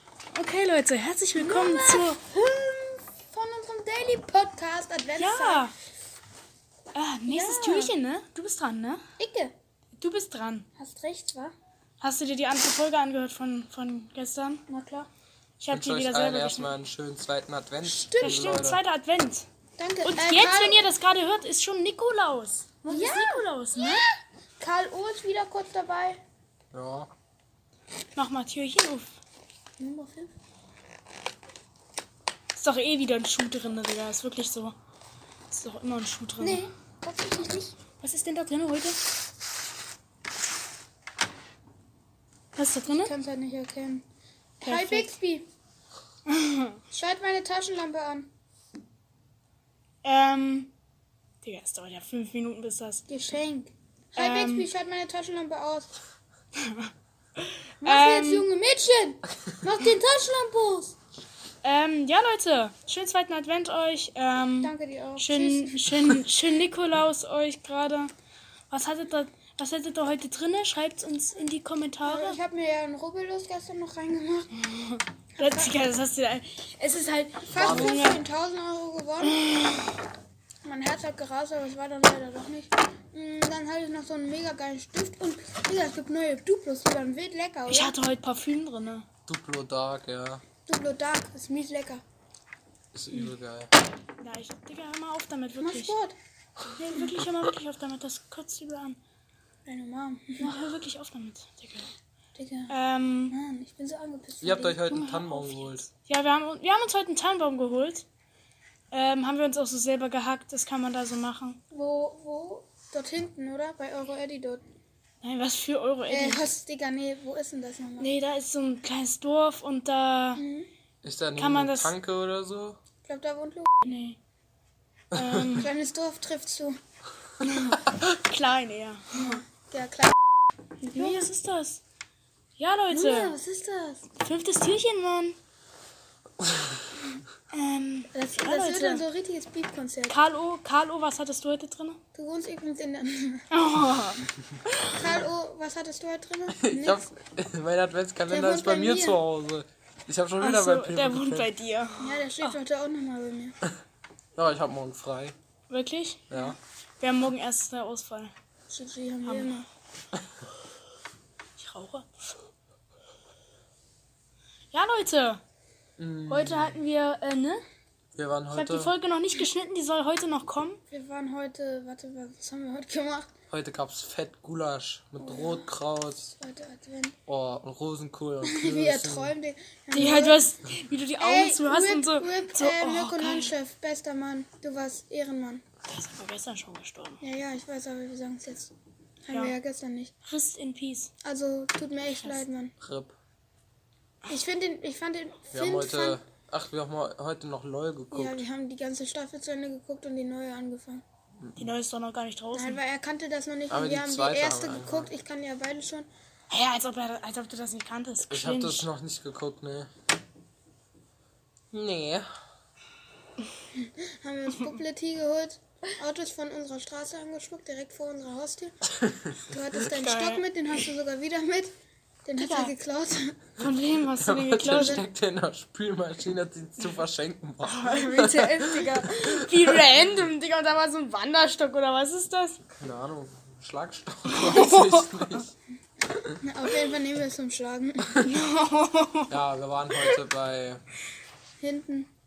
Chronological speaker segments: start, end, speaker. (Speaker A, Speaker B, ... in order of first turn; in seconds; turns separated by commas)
Speaker A: 0.3-2.2, Speaker B: 1.4-5.7, Speaker A: 5.2-5.7, Speaker A: 6.9-9.0, Speaker B: 7.2-7.9, Speaker B: 9.2-9.5, Speaker A: 9.9-10.7, Speaker B: 10.8-11.5, Speaker A: 12.0-14.6, Speaker B: 14.7-15.1, Speaker A: 15.6-16.7, Speaker C: 15.7-18.8, Speaker B: 17.8-18.4, Speaker A: 18.2-19.5, Speaker B: 19.8-20.9, Speaker A: 20.0-24.0, Speaker B: 22.8-24.1, Speaker B: 24.6-26.2, Speaker C: 26.7-27.1, Speaker A: 28.1-29.1, Speaker B: 29.8-30.3, Speaker A: 32.5-34.7, Speaker A: 35.5-36.6, Speaker B: 36.4-37.7, Speaker A: 38.0-39.0, Speaker A: 42.5-43.1, Speaker B: 42.8-44.0, Speaker B: 44.6-45.5, Speaker A: 44.6-45.1, Speaker A: 46.3-46.8, Speaker B: 46.9-48.3, Speaker A: 50.0-50.7, Speaker A: 51.4-53.0, Speaker B: 53.1-55.9, Speaker A: 54.1-54.7, Speaker A: 56.6-56.9, Speaker A: 57.4-58.5, Speaker B: 57.8-61.0, Speaker A: 61.6-68.1, Speaker B: 64.6-66.0, Speaker A: 68.7-72.4, Speaker B: 72.0-74.5, Speaker A: 74.6-78.2, Speaker B: 75.4-75.8, Speaker B: 77.5-79.4, Speaker C: 77.5-78.0, Speaker A: 79.2-79.9, Speaker B: 80.6-87.9, Speaker A: 87.7-89.0, Speaker C: 89.3-90.4, Speaker B: 90.7-92.0, Speaker C: 92.9-93.7, Speaker A: 94.2-95.9, Speaker B: 95.6-96.1, Speaker A: 96.8-99.0, Speaker B: 99.7-100.5, Speaker A: 100.4-101.9, Speaker B: 102.3-102.7, Speaker A: 102.7-103.3, Speaker B: 103.3-104.8, Speaker C: 104.4-105.9, Speaker A: 104.9-108.0, Speaker A: 108.9-111.6, Speaker B: 111.7-114.6, Speaker A: 115.2-116.5, Speaker B: 116.1-118.1, Speaker A: 118.0-120.4, Speaker B: 120.4-120.7, Speaker C: 121.0-122.8, Speaker A: 121.4-121.9, Speaker B: 123.0-123.7, Speaker A: 123.8-124.2, Speaker A: 125.1-125.7, Speaker C: 125.2-125.6, Speaker B: 125.5-126.8, Speaker A: 127.4-129.4, Speaker B: 129.1-130.1, Speaker B: 130.8-131.3, Speaker A: 130.9-131.8, Speaker A: 132.6-133.3, Speaker B: 132.9-134.0, Speaker A: 134.2-135.3, Speaker A: 137.5-139.0, Speaker B: 138.1-140.2, Speaker A: 140.1-142.0, Speaker B: 142.1-143.4, Speaker A: 143.5-144.9, Speaker B: 144.9-147.1, Speaker C: 146.5-151.5, Speaker B: 148.3-149.2, Speaker A: 150.4-152.5, Speaker B: 152.0-153.5, Speaker C: 154.3-155.3, Speaker A: 155.7-158.3, Speaker C: 156.3-156.6, Speaker B: 158.7-159.7, Speaker A: 159.2-159.6, Speaker A: 161.6-162.3, Speaker A: 164.7-165.4, Speaker C: 166.0-166.8, Speaker A: 166.3-167.6, Speaker C: 168.1-168.9, Speaker A: 168.5-170.8, Speaker B: 170.9-173.2, Speaker C: 173.5-176.3, Speaker B: 175.2-175.7, Speaker B: 176.3-177.1, Speaker C: 177.3-179.3, Speaker B: 178.4-180.5, Speaker A: 179.9-183.5, Speaker B: 181.2-185.6, Speaker A: 185.9-187.2, Speaker B: 187.2-188.7, Speaker B: 189.3-190.1, Speaker A: 190.2-191.1, Speaker B: 191.2-192.7, Speaker A: 192.1-192.4, Speaker C: 192.8-193.2, Speaker B: 194.3-196.2, Speaker C: 195.5-198.4, Speaker B: 198.1-201.0, Speaker A: 201.6-202.8, Speaker B: 202.5-206.1, Speaker C: 203.7-205.1, Speaker A: 206.5-208.9, Speaker C: 208.3-209.9, Speaker C: 211.7-212.3, Speaker B: 213.8-218.7, Speaker B: 219.5-221.7, Speaker A: 219.9-220.8, Speaker B: 222.2-223.4, Speaker A: 222.4-222.7, Speaker A: 223.6-225.0, Speaker C: 224.2-229.9, Speaker B: 224.7-225.0, Speaker A: 227.6-232.6, Speaker C: 232.8-235.5, Speaker A: 234.3-235.4, Speaker B: 236.4-238.2, Speaker A: 238.2-239.3, Speaker C: 239.3-240.8, Speaker B: 241.6-242.1